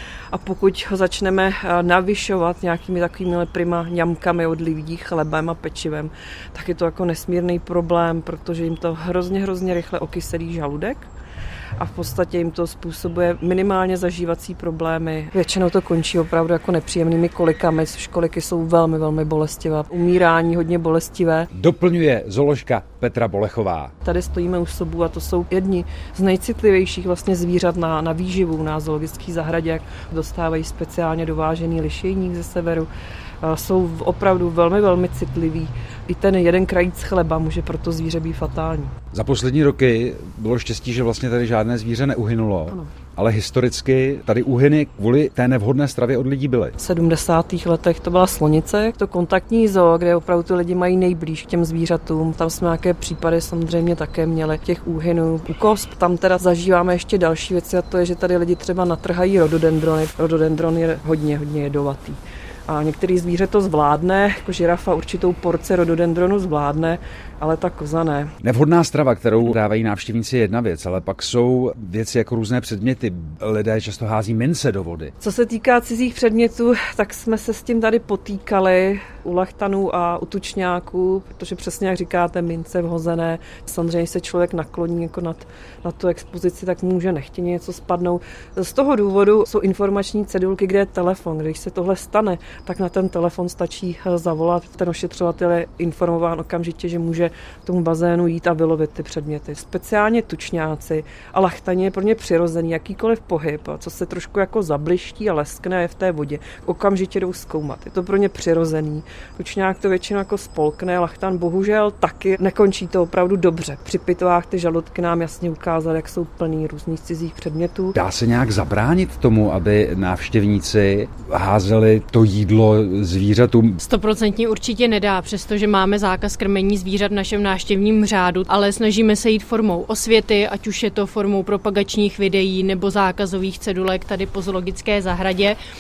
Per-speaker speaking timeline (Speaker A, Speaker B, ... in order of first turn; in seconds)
Speaker A: 0.3-11.1, 11.8-21.5, 24.0-32.9, 33.4-38.9, 46.8-68.3, 75.2-118.0
Speaker B: 21.5-23.9, 39.1-46.7, 68.4-75.1, 118.0-123.8
Speaker C: 123.8-135.6